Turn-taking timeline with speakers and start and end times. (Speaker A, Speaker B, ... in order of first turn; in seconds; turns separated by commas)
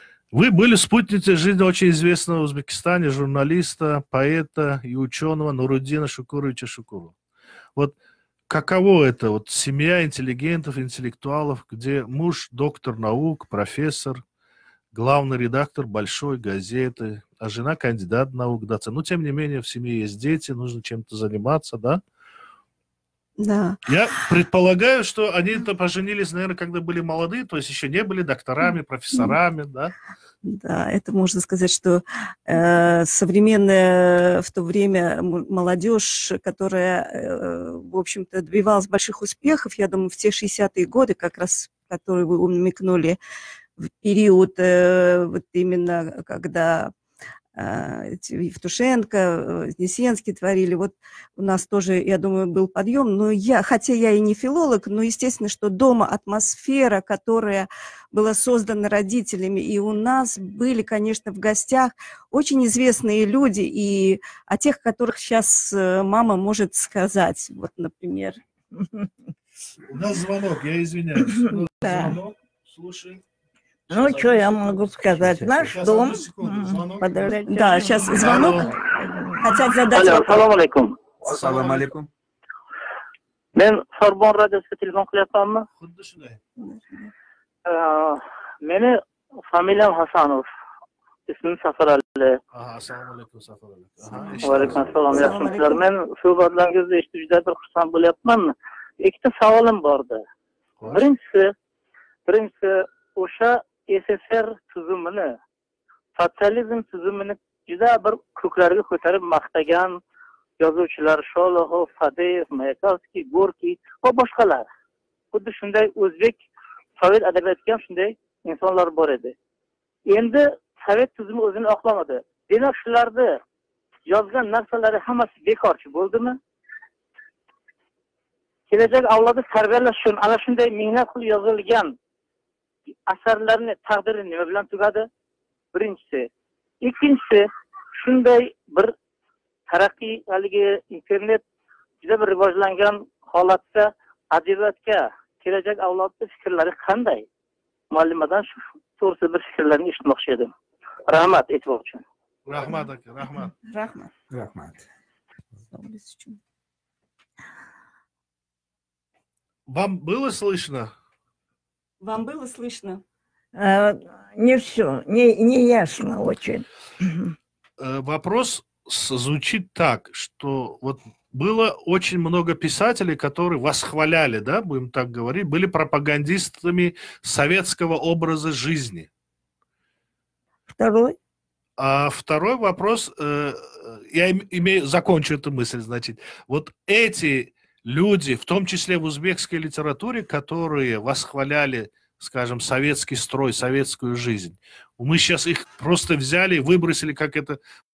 Speaker A: 0.3-7.1, Speaker A: 8.5-14.2, Speaker A: 14.9-22.0, Speaker B: 23.4-23.8, Speaker A: 23.8-29.9, Speaker B: 30.4-43.2, Speaker B: 43.8-46.9, Speaker B: 47.5-68.4, Speaker A: 69.9-73.2, Speaker B: 71.5-72.2, Speaker A: 73.9-74.8, Speaker C: 73.9-78.5, Speaker D: 75.2-75.7, Speaker A: 75.6-77.3, Speaker B: 77.5-80.4, Speaker A: 78.1-78.7, Speaker E: 79.9-80.9, Speaker D: 81.2-82.1, Speaker A: 81.3-81.9, Speaker E: 83.5-85.7, Speaker A: 85.8-86.4, Speaker B: 86.6-87.1, Speaker E: 87.7-89.0, Speaker E: 89.5-90.5, Speaker E: 91.3-92.4, Speaker A: 92.5-95.2, Speaker B: 94.0-95.8, Speaker E: 94.4-100.2, Speaker A: 100.8-101.0, Speaker E: 100.9-101.5, Speaker E: 102.2-105.3, Speaker E: 106.2-110.0, Speaker E: 110.6-114.7, Speaker E: 115.3-116.4, Speaker E: 117.0-119.3, Speaker E: 120.1-123.4, Speaker E: 124.1-126.4, Speaker E: 128.7-131.9, Speaker E: 133.1-135.1, Speaker E: 135.7-136.3, Speaker E: 136.8-137.5, Speaker E: 138.0-138.9, Speaker E: 139.7-141.4, Speaker E: 142.0-147.3, Speaker E: 147.9-150.5, Speaker E: 151.1-152.0, Speaker A: 152.5-153.5, Speaker B: 153.4-154.1, Speaker D: 154.3-154.8, Speaker B: 155.7-156.4, Speaker A: 159.7-160.9, Speaker B: 162.0-163.0, Speaker C: 163.6-167.3, Speaker A: 167.8-179.1, Speaker C: 180.7-181.2, Speaker A: 181.8-197.6